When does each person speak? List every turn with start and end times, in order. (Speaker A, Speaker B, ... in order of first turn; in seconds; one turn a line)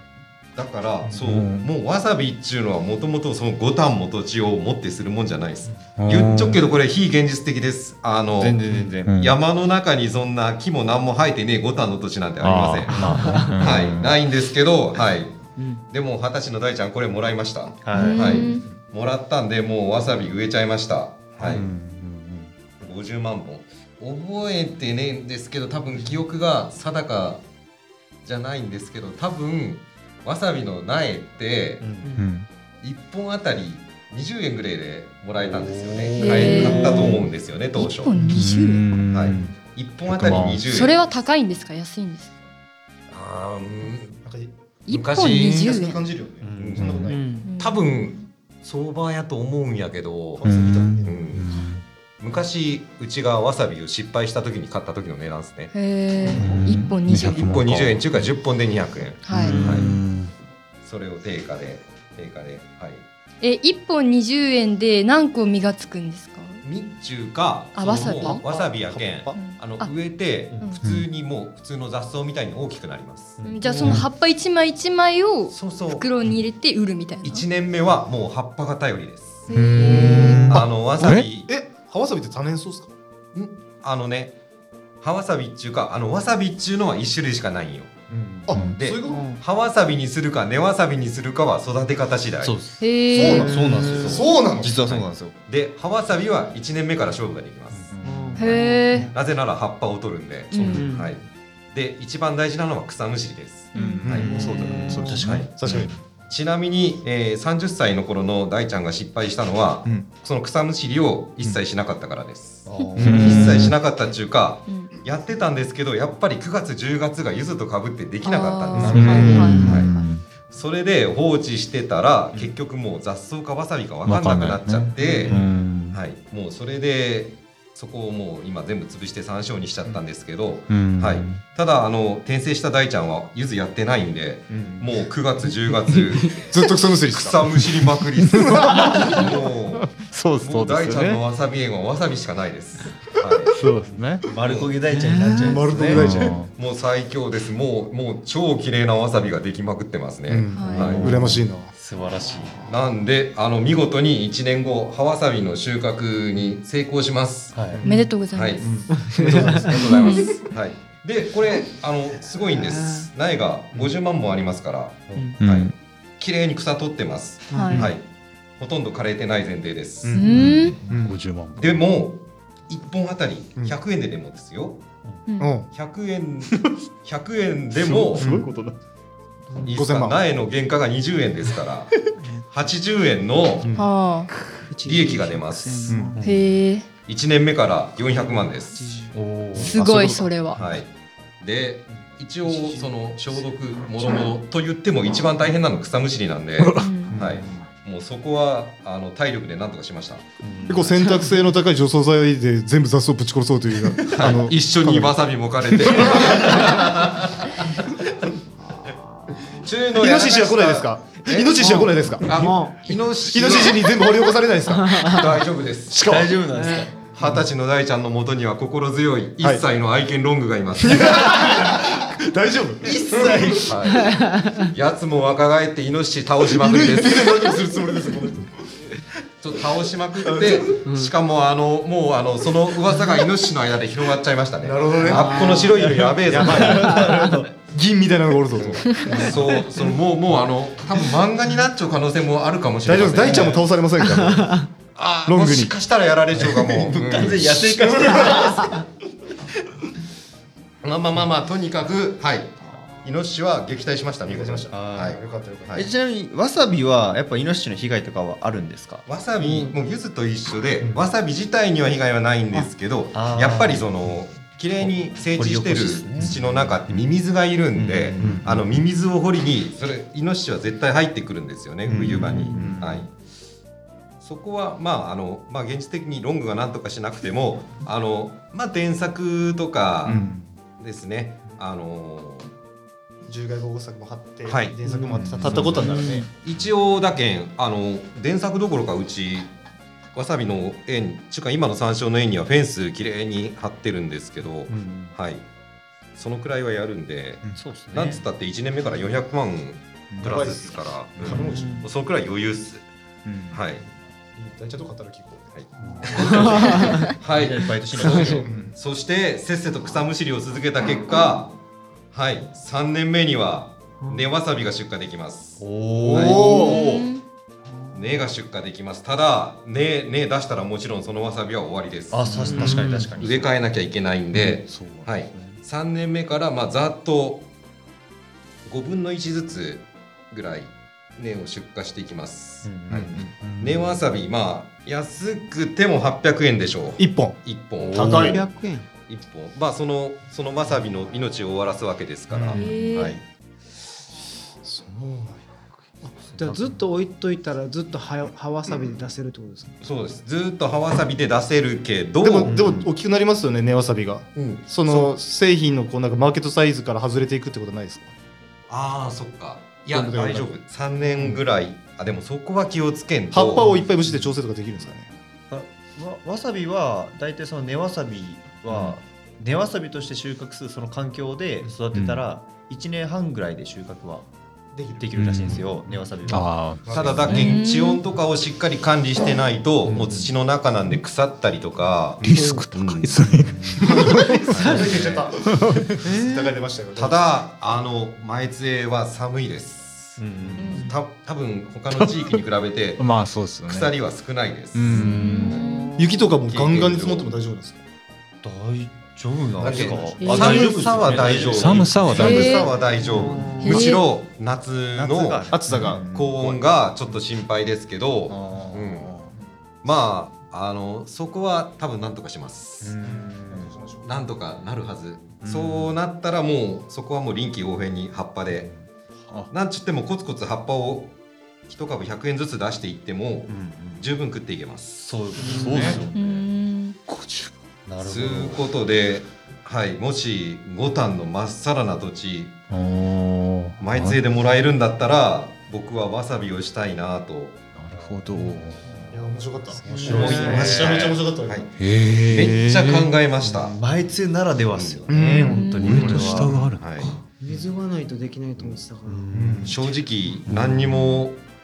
Speaker A: 0.6-21.7
Speaker B: 1.2-1.7
Speaker B: 6.0-6.6
Speaker C: 8.4-9.1
Speaker B: 9.0-9.4
Speaker B: 12.4-14.2
Speaker C: 12.9-13.3
Speaker D: 13.0-13.6
Speaker D: 15.6-15.8
Speaker C: 17.8-18.6
Speaker E: 17.9-18.6
Speaker B: 21.4-22.3
Speaker A: 22.8-27.4
Speaker A: 28.2-31.9
Speaker C: 31.8-32.1
Speaker B: 32.2-32.5
Speaker A: 32.8-38.1
Speaker C: 35.4-37.2
Speaker E: 36.2-37.2
Speaker D: 36.2-37.0
Speaker E: 37.8-38.9
Speaker B: 38.2-39.5
Speaker A: 39.1-41.0
Speaker B: 40.1-40.7
Speaker E: 40.7-42.4
Speaker A: 43.1-44.2
Speaker F: 44.2-44.5
Speaker E: 44.9-46.0
Speaker A: 44.9-45.7
Speaker F: 45.3-47.3
Speaker C: 46.4-47.0
Speaker A: 46.5-51.7
Speaker D: 47.1-47.5
Speaker E: 47.4-48.3
Speaker F: 50.4-51.4
Speaker B: 50.4-51.8
Speaker A: 52.2-55.7
Speaker E: 55.7-57.5
Speaker B: 56.4-58.1
Speaker A: 56.4-56.7
Speaker A: 57.2-59.9
Speaker E: 59.2-59.6
Speaker B: 59.3-60.3
Speaker A: 60.8-63.0
Speaker E: 63.4-66.6
Speaker A: 66.6-73.4
Speaker E: 67.8-68.4
Speaker F: 68.2-69.6
Speaker E: 69.3-69.9
Speaker C: 73.4-73.6
Speaker E: 73.4-77.5
Speaker D: 73.6-74.0
Speaker A: 75.5-76.0
Speaker A: 77.2-79.5
Speaker E: 79.5-80.4
Speaker B: 79.5-81.3
Speaker D: 79.8-80.5
Speaker A: 80.4-81.5
Speaker F: 80.5-80.8
Speaker F: 81.4-82.9
Speaker A: 83.3-84.4
Speaker A: 85.0-87.9
Speaker C: 88.1-88.5
Speaker F: 88.5-89.4
Speaker D: 88.6-89.4
Speaker A: 88.7-92.6
Speaker C: 92.4-95.3
Speaker E: 92.8-93.6
Speaker F: 93.1-94.8
Speaker A: 93.8-98.0
Speaker B: 97.9-98.6
Speaker D: 98.0-99.2
Speaker E: 98.4-99.1
Speaker A: 99.1-104.3
Speaker E: 100.5-101.0
Speaker D: 100.6-101.1
Speaker E: 103.8-104.0
Speaker B: 103.8-105.5
Speaker F: 104.0-105.9
Speaker D: 104.3-105.2
Speaker A: 105.2-105.5
Speaker A: 106.3-143.6
Speaker C: 112.7-113.5
Speaker F: 113.0-113.3
Speaker B: 113.0-113.8
Speaker E: 114.7-114.9
Speaker E: 118.2-119.8
Speaker C: 118.7-119.3
Speaker F: 118.9-119.7
Speaker B: 118.9-120.2
Speaker D: 119.4-119.8
Speaker B: 124.0-126.0
Speaker C: 125.0-125.4
Speaker B: 130.7-131.4
Speaker C: 134.5-134.9
Speaker D: 135.9-136.5
Speaker F: 136.5-139.3
Speaker B: 138.2-139.1
Speaker B: 139.9-141.2
Speaker B: 143.5-144.2
Speaker C: 144.3-146.0
Speaker A: 144.4-144.7
Speaker D: 144.9-145.6
Speaker F: 145.4-146.5
Speaker B: 145.9-146.5
Speaker A: 146.0-151.2
Speaker F: 150.3-151.7
Speaker E: 150.5-151.0
Speaker C: 150.8-152.7
Speaker A: 152.7-157.7
Speaker C: 157.5-157.8
Speaker F: 157.7-158.1
Speaker D: 157.8-158.2
Speaker E: 157.8-158.9
Speaker A: 158.2-168.0
Speaker F: 158.6-160.4
Speaker D: 158.9-159.6
Speaker E: 159.9-160.4
Speaker D: 162.5-163.1
Speaker C: 165.1-165.3
Speaker B: 165.4-165.8
Speaker D: 167.5-167.8
Speaker E: 167.5-167.9
Speaker A: 168.6-170.3
Speaker F: 170.0-171.2
Speaker E: 170.1-170.8
Speaker B: 170.3-171.8
Speaker A: 171.6-174.8
Speaker E: 175.3-175.5
Speaker F: 175.4-175.7
Speaker A: 175.7-178.4
Speaker B: 177.8-178.8
Speaker F: 178.2-178.5
Speaker F: 179.5-180.3
Speaker A: 179.7-181.9
Speaker D: 182.2-182.5
Speaker A: 182.5-183.7
Speaker F: 183.6-183.9
Speaker E: 183.8-184.3
Speaker D: 184.5-186.2
Speaker A: 184.8-186.1
Speaker F: 185.9-186.2
Speaker C: 186.2-186.4
Speaker E: 186.2-186.9
Speaker A: 187.1-188.9
Speaker D: 188.1-189.2
Speaker C: 189.1-189.8
Speaker E: 189.6-190.6
Speaker F: 189.7-190.4
Speaker A: 190.5-200.4
Speaker D: 192.4-194.3
Speaker B: 196.6-196.9
Speaker E: 196.8-197.2
Speaker C: 200.4-200.9
Speaker F: 200.7-205.1
Speaker A: 204.1-207.5
Speaker F: 205.7-206.8
Speaker D: 208.8-209.5
Speaker A: 209.5-211.7
Speaker F: 209.9-212.5
Speaker D: 211.6-212.9
Speaker A: 212.2-214.3
Speaker F: 213.3-215.4
Speaker D: 214.7-215.4
Speaker A: 215.0-216.0
Speaker F: 215.9-216.4
Speaker C: 216.0-216.9
Speaker D: 216.5-216.9
Speaker A: 217.1-221.6
Speaker F: 220.8-223.8
Speaker C: 222.8-223.7
Speaker A: 223.6-224.2
Speaker D: 223.9-224.7
Speaker A: 224.7-227.6
Speaker F: 226.5-228.8
Speaker A: 229.4-237.1
Speaker F: 230.2-230.9
Speaker D: 230.9-231.1
Speaker F: 234.6-239.6
Speaker D: 235.1-236.2
Speaker C: 236.0-237.5
Speaker D: 236.8-237.4
Speaker A: 238.6-243.7
Speaker F: 242.8-244.7
Speaker D: 244.3-244.7
Speaker A: 244.9-247.7
Speaker F: 245.2-245.8
Speaker C: 246.3-248.8
Speaker F: 247.4-248.8
Speaker A: 250.8-255.2
Speaker F: 254.2-255.8
Speaker C: 254.7-255.2
Speaker C: 255.7-259.1
Speaker A: 259.1-273.1
Speaker D: 259.4-259.8
Speaker F: 260.8-261.1
Speaker C: 263.1-263.9
Speaker C: 264.8-267.0
Speaker C: 267.7-268.5
Speaker F: 268.2-268.7
Speaker C: 271.9-272.8
Speaker B: 272.6-273.0
Speaker A: 274.2-280.2
Speaker F: 280.1-280.4
Speaker A: 280.8-282.5
Speaker F: 283.3-286.3
Speaker A: 284.5-284.8
Speaker D: 284.9-286.3
Speaker A: 285.4-289.5
Speaker A: 290.1-295.4
Speaker C: 294.7-295.1
Speaker A: 296.1-302.9
Speaker C: 297.6-298.2
Speaker B: 300.2-300.4
Speaker F: 300.2-301.9
Speaker D: 301.3-301.9
Speaker B: 303.3-303.6
Speaker A: 303.5-303.8
Speaker F: 304.4-306.8
Speaker A: 305.5-311.5
Speaker D: 305.8-307.1
Speaker C: 306.0-306.7
Speaker C: 307.2-308.5
Speaker D: 308.0-308.4
Speaker F: 308.4-308.7
Speaker A: 312.1-316.9
Speaker C: 315.6-316.9
Speaker F: 316.1-317.0
Speaker E: 316.3-317.2
Speaker A: 317.9-327.5
Speaker C: 322.1-323.5
Speaker D: 322.5-323.1
Speaker B: 324.3-325.6
Speaker A: 328.7-338.4
Speaker C: 332.6-333.3
Speaker B: 333.3-334.1
Speaker F: 337.0-337.4
Speaker C: 337.8-338.4
Speaker F: 338.0-338.4
Speaker D: 338.2-338.9
Speaker A: 339.1-342.7
Speaker F: 342.3-342.7
Speaker E: 342.5-343.2
Speaker C: 342.9-343.2
Speaker F: 344.6-345.5
Speaker D: 346.1-349.8
Speaker C: 346.3-346.8
Speaker A: 349.8-352.6
Speaker F: 352.2-358.1
Speaker C: 352.4-352.9
Speaker A: 354.3-355.1
Speaker A: 358.7-363.7
Speaker F: 359.9-360.6
Speaker F: 361.1-361.4
Speaker F: 363.3-365.1
Speaker C: 365.5-374.3
Speaker B: 371.9-372.2
Speaker F: 374.7-375.7
Speaker C: 374.9-376.6
Speaker B: 375.2-375.6
Speaker B: 376.3-377.5
Speaker F: 376.3-377.6
Speaker A: 376.7-383.4
Speaker E: 377.3-378.0
Speaker C: 379.8-380.3
Speaker B: 382.2-384.5
Speaker D: 382.2-382.7
Speaker C: 383.5-383.8
Speaker C: 384.5-385.3
Speaker F: 384.6-387.4
Speaker A: 384.7-385.2
Speaker B: 385.5-385.9
Speaker D: 386.1-386.4
Speaker A: 386.9-395.7
Speaker C: 390.2-390.8
Speaker E: 390.6-390.9
Speaker F: 390.6-391.0
Speaker B: 391.9-392.4
Speaker B: 393.0-393.9
Speaker B: 394.7-395.5
Speaker E: 395.0-395.9
Speaker F: 396.0-397.8
Speaker A: 396.5-397.3
Speaker C: 398.4-402.6
Speaker A: 399.6-409.3
Speaker F: 399.6-401.3
Speaker E: 400.2-400.7
Speaker B: 401.5-402.6
Speaker E: 402.2-402.7
Speaker D: 403.0-403.7
Speaker E: 403.6-404.0
Speaker C: 404.9-406.6
Speaker F: 405.5-406.1
Speaker C: 408.4-408.6
Speaker B: 408.8-409.3
Speaker A: 409.8-413.0
Speaker C: 412.8-413.7
Speaker F: 413.0-414.1
Speaker A: 414.1-418.7
Speaker B: 415.4-415.9
Speaker A: 419.5-421.1
Speaker A: 421.7-425.2
Speaker C: 423.5-424.1
Speaker C: 425.0-426.4
Speaker B: 425.5-426.1
Speaker E: 426.1-427.0
Speaker B: 427.1-427.5
Speaker C: 427.9-428.6
Speaker A: 428.0-432.6
Speaker B: 432.7-434.2
Speaker A: 433.8-437.6
Speaker B: 437.8-439.0
Speaker C: 437.9-439.1
Speaker F: 439.1-441.7
Speaker C: 439.8-441.2
Speaker D: 439.9-440.4
Speaker A: 440.0-443.8
Speaker B: 441.8-443.1
Speaker C: 443.4-446.5
Speaker A: 444.7-445.1
Speaker F: 445.1-446.8
Speaker E: 445.4-446.0
Speaker B: 445.8-447.2
Speaker A: 445.8-447.2
Speaker D: 447.4-449.4
Speaker C: 449.1-449.8
Speaker F: 449.3-449.8
Speaker A: 449.6-451.4
Speaker C: 450.5-450.9
Speaker E: 450.9-451.2